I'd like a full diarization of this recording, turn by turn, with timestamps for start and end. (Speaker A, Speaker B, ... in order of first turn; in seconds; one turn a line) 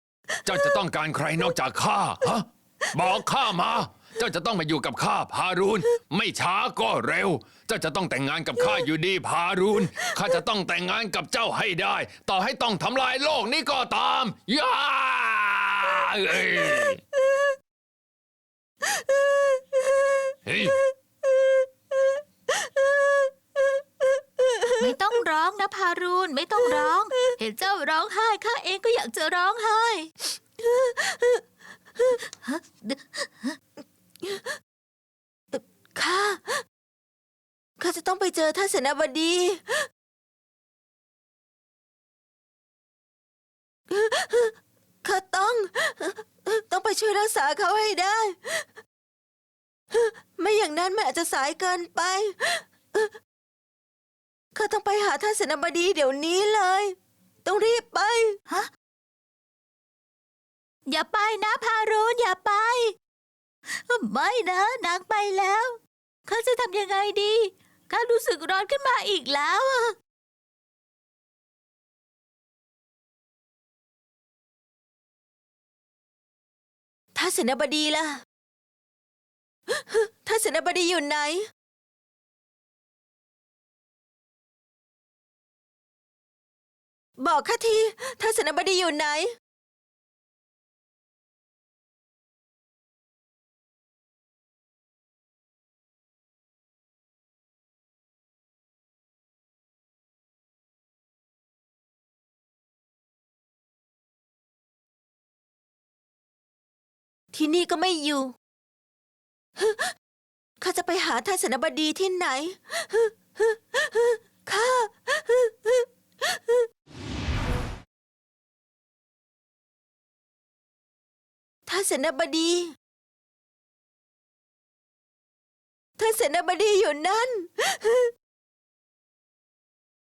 Speaker A: 0.4-17.0
Speaker B: 19.0-20.1
Speaker A: 20.4-20.8
Speaker B: 22.6-23.3
Speaker B: 24.0-24.8
Speaker C: 24.8-30.1
Speaker B: 30.6-31.4
Speaker C: 32.4-33.6
Speaker B: 34.2-34.5
Speaker B: 35.5-36.6
Speaker B: 37.8-39.9
Speaker B: 43.9-48.7
Speaker B: 49.9-53.1
Speaker B: 54.5-58.4
Speaker C: 60.9-63.0
Speaker C: 63.9-70.0
Speaker B: 77.1-78.2
Speaker B: 79.7-81.5
Speaker B: 87.2-89.3
Speaker B: 107.3-108.3
Speaker B: 109.6-109.9
Speaker B: 110.6-116.7
Speaker B: 121.7-122.7
Speaker B: 126.0-128.1